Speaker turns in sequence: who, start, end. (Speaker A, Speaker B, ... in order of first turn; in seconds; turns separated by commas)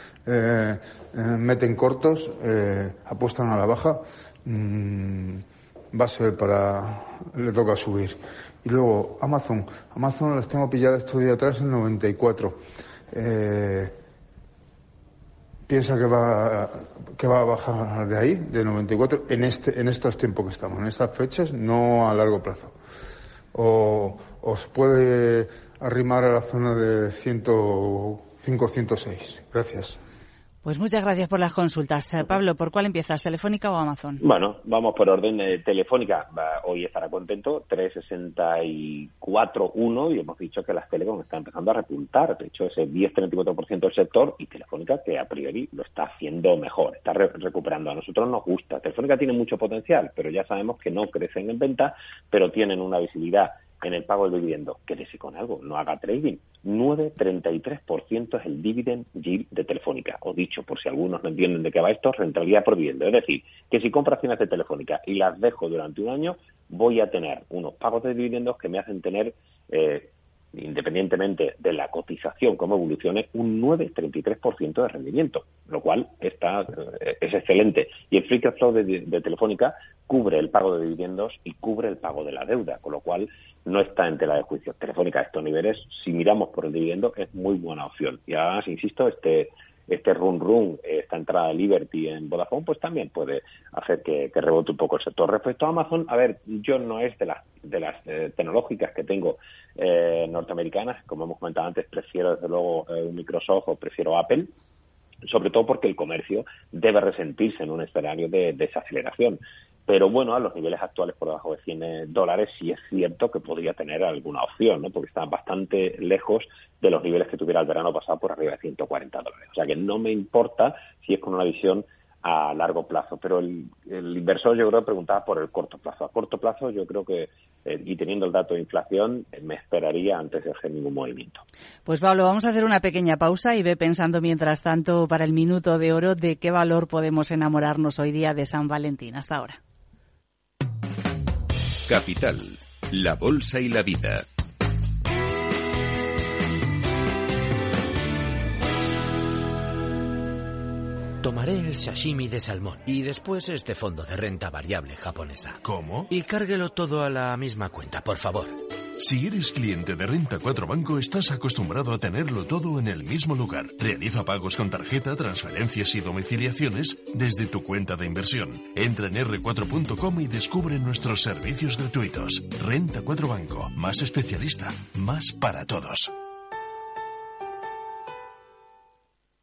Speaker A: 0.2-12.6, Speaker A: 13.1-13.9, Speaker A: 15.7-22.8, Speaker A: 23.5-30.0, Speaker B: 30.6-34.2, Speaker C: 34.2-104.5, Speaker C: 105.3-131.4, Speaker B: 131.9-139.6, Speaker D: 141.9-144.3, Speaker E: 151.2-158.6, Speaker F: 155.6-156.1, Speaker F: 159.0-176.1